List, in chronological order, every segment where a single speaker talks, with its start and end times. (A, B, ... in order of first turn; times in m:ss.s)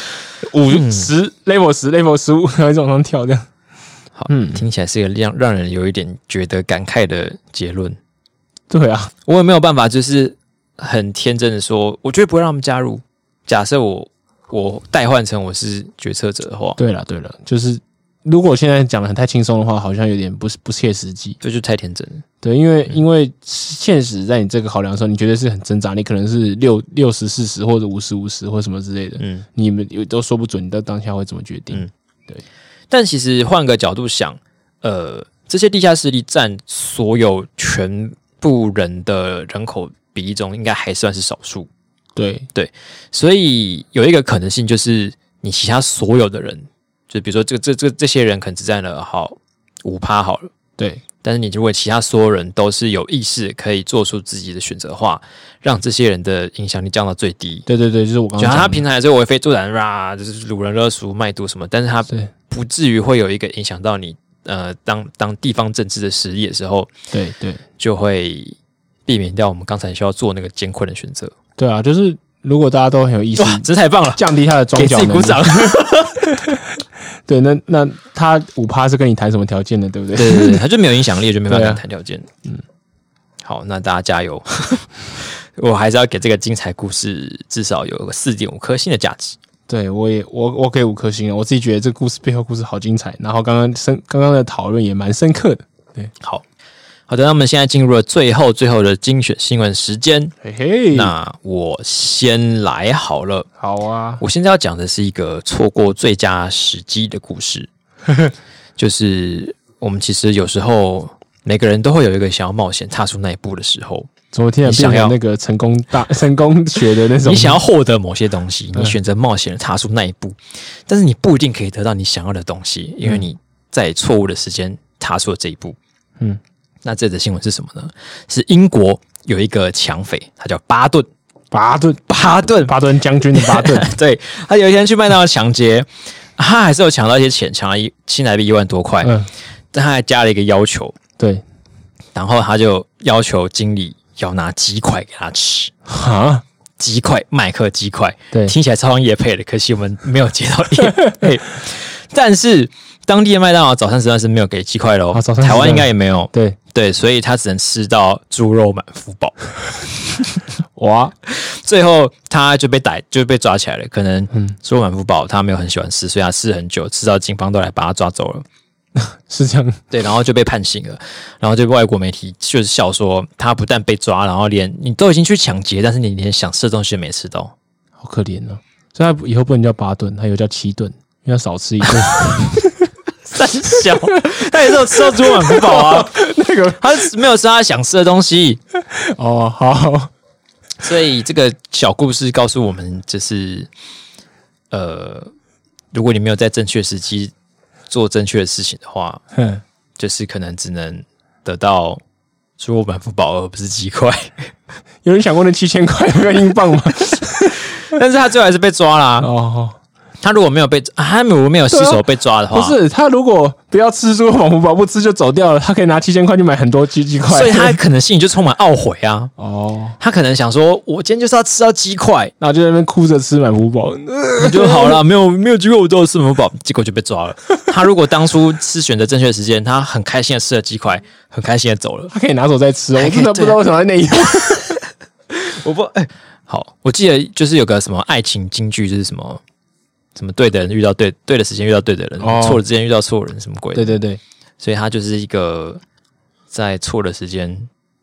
0:00.4-0:03.5 A
0:00.7-0:01.1 B
0:04.2-0:08.0 B
0:04.3-0:04.6 A
0:08.7-0:09.1 A
0:09.3-0:16.8 B
0:16.8-0:21.4 A
0:21.4-0:22.2 B
0:22.4-0:32.4 A
0:29.2-0:29.4 B
0:32.9-0:41.7 B
0:42.2-0:42.5 A
0:42.6-0:50.5 B
0:50.8-0:51.0 A
0:51.2-0:57.7 B
0:57.7-0:58.8 A
0:58.4-1:06.9 B
1:07.1-1:07.6 A
1:07.8-1:11.3 B
1:11.6-1:16.6 A
1:13.4-1:14.2 B
1:14.8-1:16.3 B
1:17.3-1:20.6 A
1:20.2-1:22.3 B
1:21.5-1:21.8 A
1:23.4-1:29.4 B
1:29.7-1:36.1 A
1:37.1-1:40.3 B
1:40.4-1:41.1 A
1:40.9-1:43.5 B
1:43.6-1:44.2 A
1:44.2-1:47.7 B
1:48.8-1:54.1 B
1:54.3-1:57.6 A
1:54.6-1:55.2 B
1:57.2-2:05.8 B
2:06.8-2:11.1 B
2:11.5-2:13.9 A
2:12.1-2:12.8 B
2:13.3-2:19.2 B
2:19.0-2:19.3 A
2:19.7-2:21.0 B
2:22.2-2:25.7 B
2:25.9-2:26.4 A
2:26.8-2:39.4 B
2:35.1-2:36.6 A
2:40.8-2:41.1 A
2:41.3-2:48.4 B
2:49.0-2:49.8 A
2:49.9-2:57.5 B
2:58.0-3:02.7 A
3:03.3-3:06.2 B
3:04.9-3:07.1 A
3:06.8-3:08.6 B
3:08.9-3:10.1 A
3:10.8-3:13.7 B
3:14.7-3:15.3 B
3:15.9-3:17.3 B
3:17.9-3:19.2 B
3:19.4-3:19.6 A
3:20.0-3:22.0 B
3:22.6-3:24.4 B
3:25.0-3:27.6 A
3:27.7-3:29.3 B
3:29.2-3:29.8 A
3:30.2-3:32.8 B
3:31.7-3:37.8 A
3:37.3-3:39.3 B
3:39.4-3:40.0 A
3:40.0-3:42.3 B
3:42.4-3:45.0 A
3:44.4-3:52.1 B
3:52.1-3:54.8 A
3:53.0-3:53.6 B
3:55.4-3:59.4 B
4:00.2-4:04.0 B
4:02.2-4:02.6 A
4:03.8-4:04.2 A
4:04.6-4:05.8 B
4:06.5-4:07.7 B